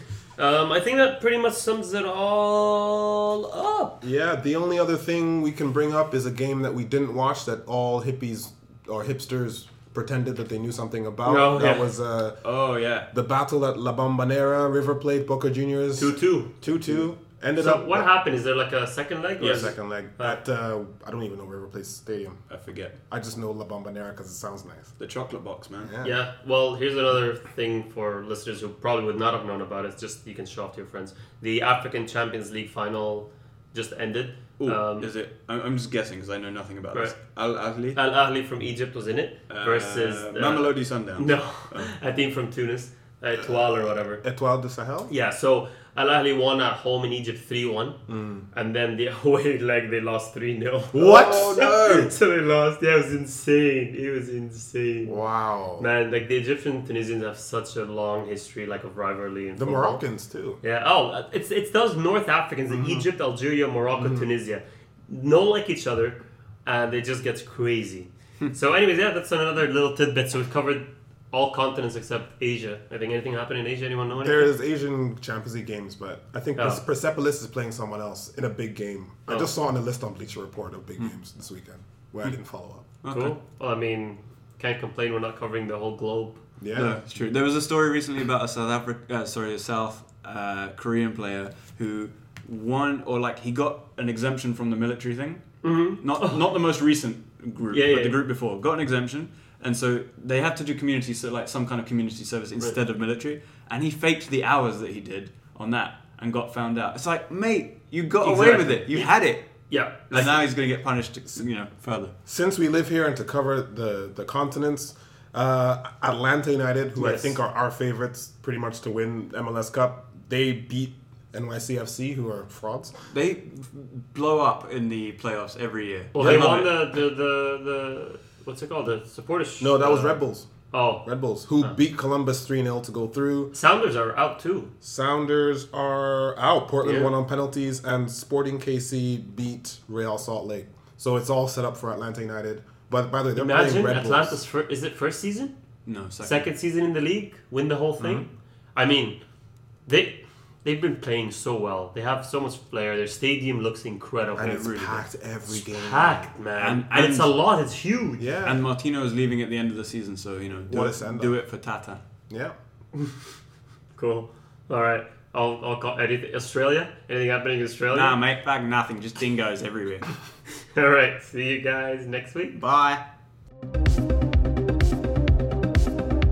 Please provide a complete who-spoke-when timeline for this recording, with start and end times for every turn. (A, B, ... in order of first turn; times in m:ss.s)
0:00.4-0:04.0 A
0:04.0-0:12.5 B
0:11.2-0:11.9 A
0:12.4-0:13.1 C
0:13.0-0:18.1 B
0:16.0-0:16.5 A
0:17.6-0:20.4 A
0:19.4-0:22.4 B
0:22.5-0:23.0 C
0:23.1-0:25.0 B
0:25.0-0:25.9 C
0:25.8-0:26.2 B
0:26.0-0:35.1 A
0:34.6-0:38.0 C
0:37.9-0:44.2 A
0:39.5-0:41.9 C
0:44.2-0:45.1 B
0:45.1-0:48.0 A
0:48.1-0:48.5 B
0:48.5-0:55.2 A
0:50.9-0:51.8 B
0:51.0-0:52.1 C
0:55.0-0:55.9 B
0:55.8-1:00.0 A
0:59.6-1:00.6 B
1:00.6-1:14.5 A
1:02.7-1:03.1 B
1:04.0-1:04.3 B
1:14.2-1:22.9 B
1:23.0-1:23.4 C
1:23.1-1:26.4 A
1:26.6-1:27.0 B
1:26.8-1:49.5 C
1:35.6-1:36.4 A
1:37.7-1:38.2 A
1:48.2-1:50.3 A
1:50.1-1:52.1 C
1:52.3-2:03.1 B
1:57.0-1:57.4 A
2:03.1-2:06.7 C
2:06.2-2:11.0 A
2:09.6-2:10.5 B
2:11.0-2:13.5 B
2:13.5-2:14.7 A
2:14.8-2:24.4 B
2:16.8-2:17.1 A
2:23.4-2:25.6 A
2:25.9-2:26.5 C
2:26.2-2:29.2 A
2:28.0-2:28.3 B
2:29.9-2:34.7 A
2:34.4-2:36.3 B
2:34.5-2:35.0 C
2:35.5-2:38.2 A
2:36.6-2:37.3 C
2:38.2-2:38.6 B
2:38.4-2:42.0 C
2:40.7-2:41.3 B
2:42.3-2:42.6 B
2:44.0-2:48.2 A
2:47.9-2:50.2 C
2:50.7-2:52.6 A
2:52.6-2:53.0 C